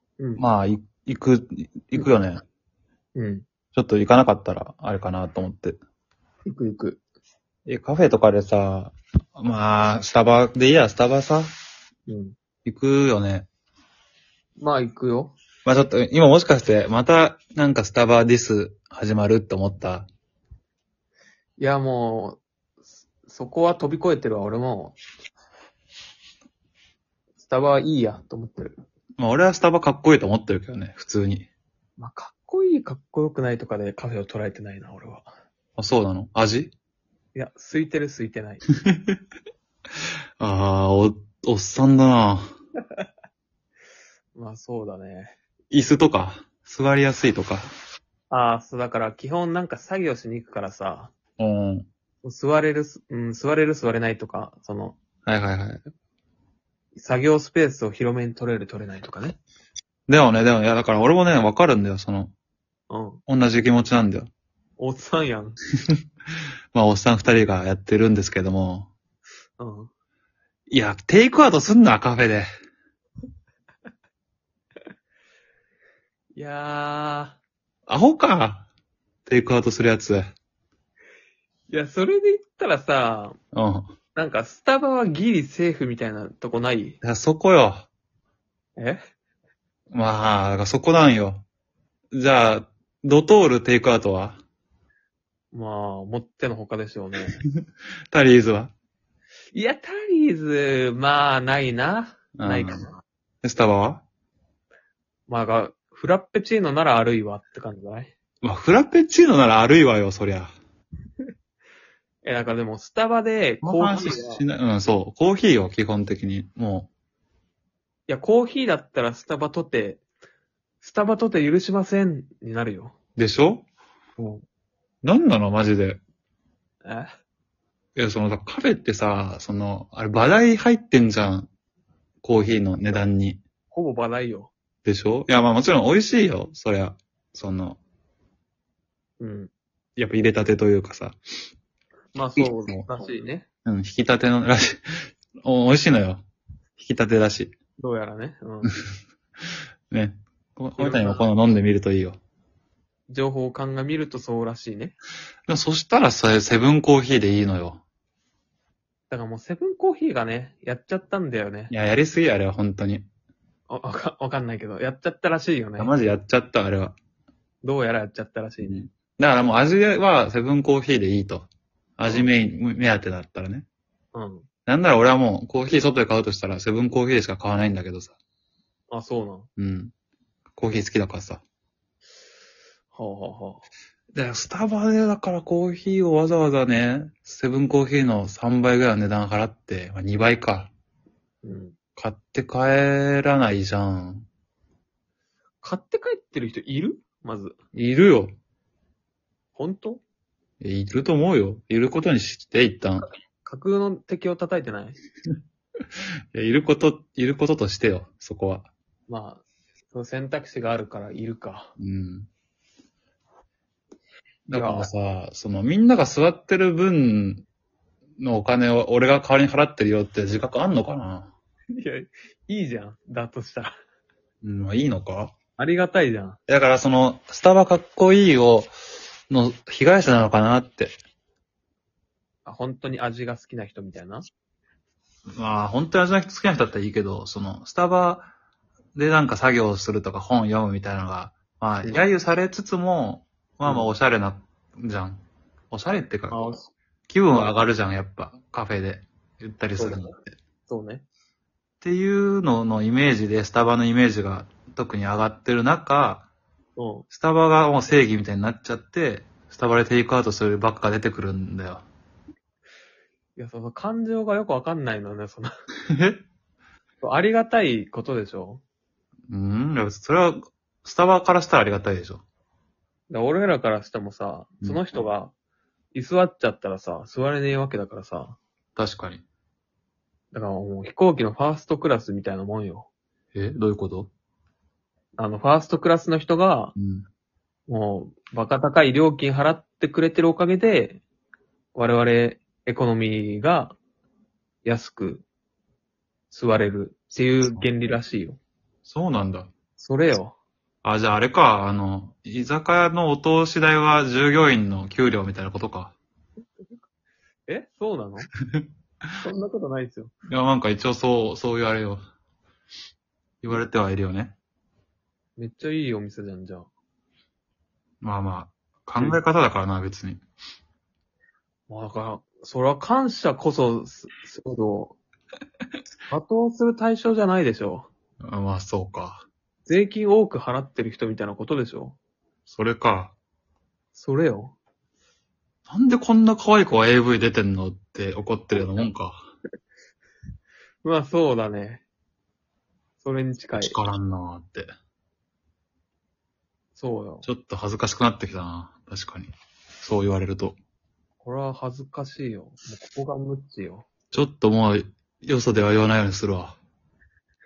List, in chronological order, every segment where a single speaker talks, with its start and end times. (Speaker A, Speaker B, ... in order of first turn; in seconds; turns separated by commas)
Speaker A: 0.4-2.4, Speaker B: 3.1-3.5, Speaker A: 3.7-5.8, Speaker B: 6.5-7.0, Speaker A: 7.7-11.5, Speaker B: 12.1-12.3, Speaker A: 12.6-13.5, Speaker B: 14.6-15.3, Speaker A: 15.6-20.1, Speaker B: 21.6-22.4, Speaker B: 23.2-25.0, Speaker B: 27.4-28.8, Speaker A: 29.2-31.5, Speaker B: 32.0-35.3, Speaker A: 35.8-36.7, Speaker B: 37.3-38.6, Speaker A: 40.4-42.5, Speaker B: 44.3-45.4, Speaker A: 45.7-47.7, Speaker B: 48.3-51.1, Speaker A: 51.4-51.9, Speaker B: 52.2-55.0, Speaker A: 55.2-55.8, Speaker B: 56.9-59.4, Speaker A: 60.1-62.3, Speaker B: 62.9-63.2, Speaker A: 63.3-64.3, Speaker B: 64.8-65.6, Speaker A: 66.7-68.9, Speaker B: 69.6-69.9, Speaker A: 70.7-72.5, Speaker B: 76.3-77.4, Speaker A: 77.9-78.7, Speaker A: 79.2-80.2, Speaker B: 81.7-83.4, Speaker A: 83.5-83.9, Speaker B: 84.2-87.0, Speaker A: 87.0-87.9, Speaker A: 89.9-91.4, Speaker A: 92.1-94.4, Speaker B: 95.5-97.4, Speaker A: 98.1-98.7, Speaker B: 99.5-103.0, Speaker A: 102.4-102.9, Speaker A: 103.4-104.0, Speaker B: 105.3-108.1, Speaker A: 108.4-110.5, Speaker B: 112.2-114.4, Speaker A: 113.6-116.9, Speaker B: 118.1-120.0, Speaker B: 120.8-122.9, Speaker A: 123.2-123.7, Speaker B: 124.2-124.4, Speaker A: 125.0-126.0, Speaker B: 126.8-127.1, Speaker A: 128.0-131.5, Speaker A: 132.2-133.4, Speaker B: 133.7-134.5, Speaker A: 134.8-137.8, Speaker B: 139.2-139.5, Speaker A: 140.0-141.2, Speaker B: 142.1-143.5, Speaker A: 142.3-142.9, Speaker A: 143.6-144.8, Speaker A: 145.4-146.2, Speaker A: 146.8-147.5, Speaker B: 147.8-148.7, Speaker A: 149.9-152.2, Speaker B: 150.8-151.3, Speaker B: 153.1-154.9, Speaker A: 155.5-157.8, Speaker B: 159.1-161.7, Speaker A: 161.7-163.1, Speaker B: 163.7-165.9, Speaker A: 165.8-166.9, Speaker B: 167.6-168.8, Speaker A: 168.6-173.7, Speaker B: 174.1-174.5, Speaker A: 174.7-178.1, Speaker B: 178.9-179.5, Speaker A: 179.6-179.9, Speaker A: 180.6-181.4, Speaker B: 182.9-183.6, Speaker A: 184.1-190.7, Speaker B: 191.4-191.8, Speaker A: 191.9-194.3, Speaker B: 195.6-197.6, Speaker A: 197.7-198.3, Speaker B: 199.5-200.0, Speaker A: 200.6-203.1, Speaker B: 203.4-205.0, Speaker A: 206.3-208.7, Speaker B: 209.1-211.7, Speaker A: 211.8-212.3, Speaker A: 214.5-217.4, Speaker B: 214.5-214.9, Speaker A: 218.2-221.3, Speaker B: 221.7-223.7, Speaker A: 224.4-225.3, Speaker B: 225.6-226.4, Speaker A: 226.5-228.7, Speaker A: 229.3-230.9, Speaker B: 232.4-234.2, Speaker A: 235.4-238.3, Speaker A: 238.9-246.4, Speaker B: 243.6-243.9, Speaker B: 246.3-246.7, Speaker A: 247.1-250.4, Speaker B: 249.8-250.1, Speaker B: 250.7-251.0, Speaker A: 251.8-256.3, Speaker B: 256.8-257.1, Speaker A: 257.1-261.8, Speaker B: 263.4-265.5, Speaker A: 265.9-266.2, Speaker B: 267.0-268.6, Speaker A: 269.3-272.2, Speaker B: 273.1-275.3, Speaker B: 275.9-278.4, Speaker A: 278.8-279.2, Speaker B: 280.3-282.9, Speaker A: 283.3-284.1, Speaker B: 285.2-286.7, Speaker A: 286.8-287.1, Speaker B: 287.7-291.0, Speaker B: 291.7-293.8, Speaker B: 294.6-295.2, Speaker B: 296.3-298.4, Speaker A: 297.4-297.7, Speaker A: 298.8-299.5, Speaker B: 299.8-300.3, Speaker A: 300.8-305.9, Speaker B: 307.5-308.3, Speaker B: 309.2-310.1, Speaker A: 310.3-312.0, Speaker A: 313.4-314.4, Speaker B: 315.4-316.7, Speaker A: 318.0-320.2, Speaker B: 321.7-325.0, Speaker B: 326.1-327.9, Speaker A: 328.2-329.2, Speaker B: 329.6-332.0, Speaker A: 332.5-333.1, Speaker B: 333.9-334.5, Speaker A: 335.7-339.2, Speaker B: 338.5-338.9, Speaker B: 340.8-341.8, Speaker B: 343.0-343.8, Speaker A: 343.5-344.7, Speaker B: 346.8-347.3, Speaker A: 347.2-349.3, Speaker A: 349.8-350.6, Speaker B: 351.2-353.9, Speaker A: 354.1-356.6